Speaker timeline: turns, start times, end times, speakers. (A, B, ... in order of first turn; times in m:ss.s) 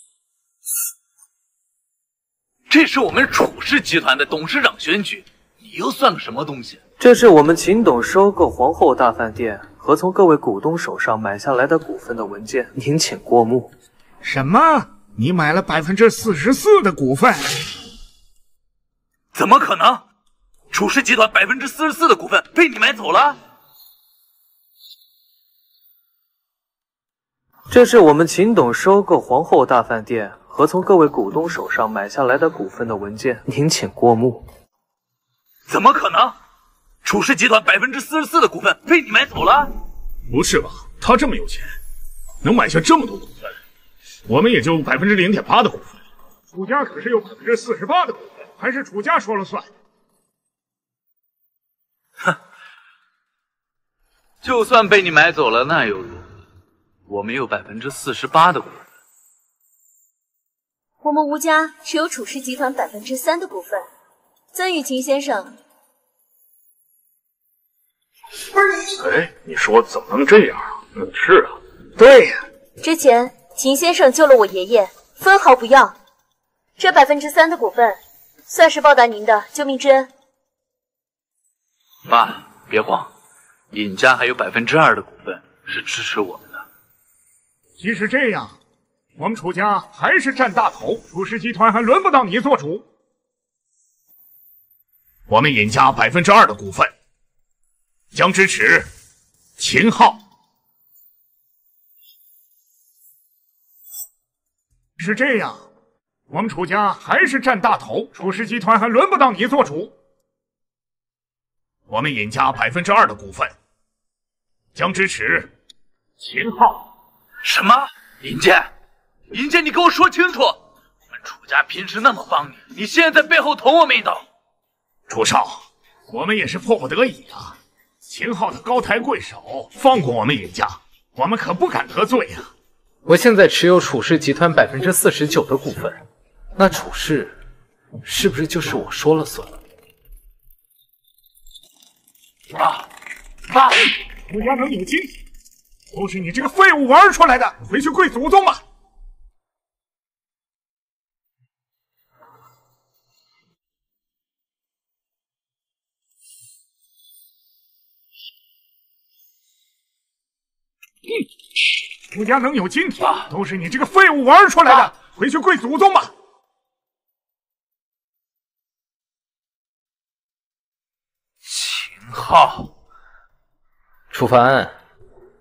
0:02.7-0:06.8 A
0:07.0-0:13.7 B
0:14.2-0:17.6 C
0:19.3-0:20.0 A
0:20.7-0:23.4 A
0:27.7-0:34.5 B
0:35.7-0:36.4 A
0:37.0-0:39.7 A
0:40.3-0:41.8 D
0:42.4-0:43.5 D
0:44.3-0:46.0 D
0:46.5-0:49.7 C
0:54.4-0:56.3 A
0:57.1-0:58.8 A
1:01.0-1:03.9 E
1:04.5-1:05.5 E
1:09.0-1:11.6 D
1:12.0-1:12.4 C
1:12.8-1:16.0 E
1:16.8-1:20.1 E
1:22.1-1:23.1 A
1:23.7-1:26.6 A
1:27.8-1:28.6 C
1:29.2-1:32.8 C
1:35.3-1:36.9 D
1:38.1-1:38.9 D
1:39.6-1:40.2 D
1:45.0-1:45.6 C
1:46.3-1:49.9 C
1:51.9-1:53.5 D
1:54.8-1:55.5 D
1:56.2-1:56.8 D
1:57.4-1:58.7 A
1:59.3-2:00.6 A
2:01.1-2:04.2 A
2:05.1-2:12.5 D
2:13.1-2:16.0 F
2:16.6-2:17.4 F
2:18.0-2:19.6 F
2:22.5-2:22.9 A
2:23.5-2:23.8 A
2:24.3-2:25.1 C
2:25.9-2:28.6 C
2:42.1-2:46.1 C
2:51.4-2:52.7 A
2:54.1-2:54.8 F